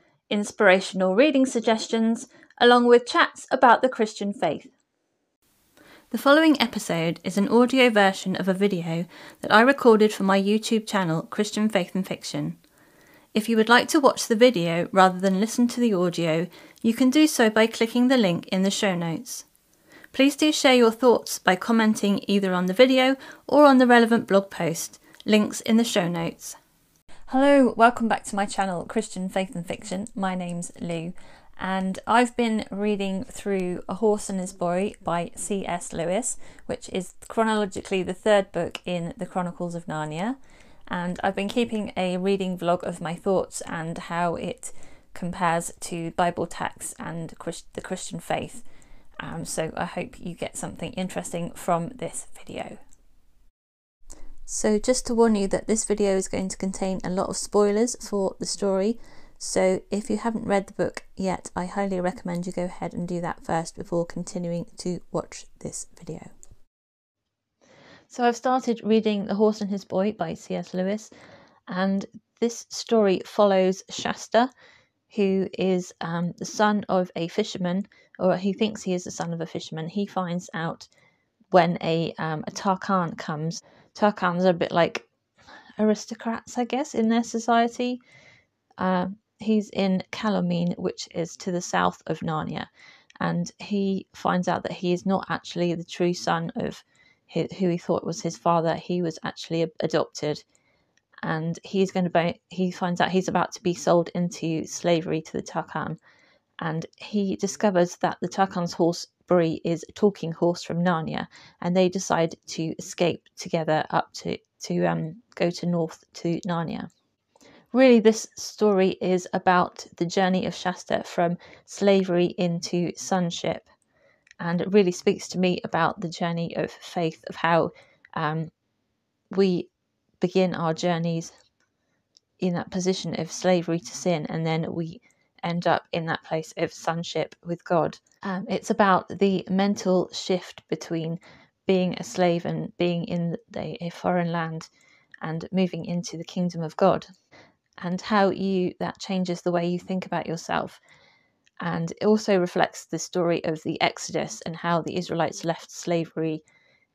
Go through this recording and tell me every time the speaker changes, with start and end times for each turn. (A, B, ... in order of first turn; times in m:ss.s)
0:00.3-0:04.7 A
0:06.1-0:12.6 A
0:13.3-0:19.5 A
0:20.1-0:26.6 A
0:27.3-0:40.4 A
0:40.9-0:48.6 A
0:49.2-0:52.8 A
0:54.5-1:06.3 A
1:08.1-1:11.1 A
1:11.7-1:14.5 A
1:15.1-1:20.9 A
1:21.5-1:25.1 A
1:25.8-1:28.0 A
1:28.8-1:32.7 A
1:33.2-1:40.4 A
1:41.2-1:46.0 A
1:46.6-1:56.9 A
1:57.7-2:03.7 A
2:04.4-2:08.5 A
2:09.3-2:09.7 A
2:10.2-2:11.3 A
2:12.4-2:24.7 A
2:25.2-2:27.1 A
2:27.8-2:30.8 A
2:31.6-2:36.4 A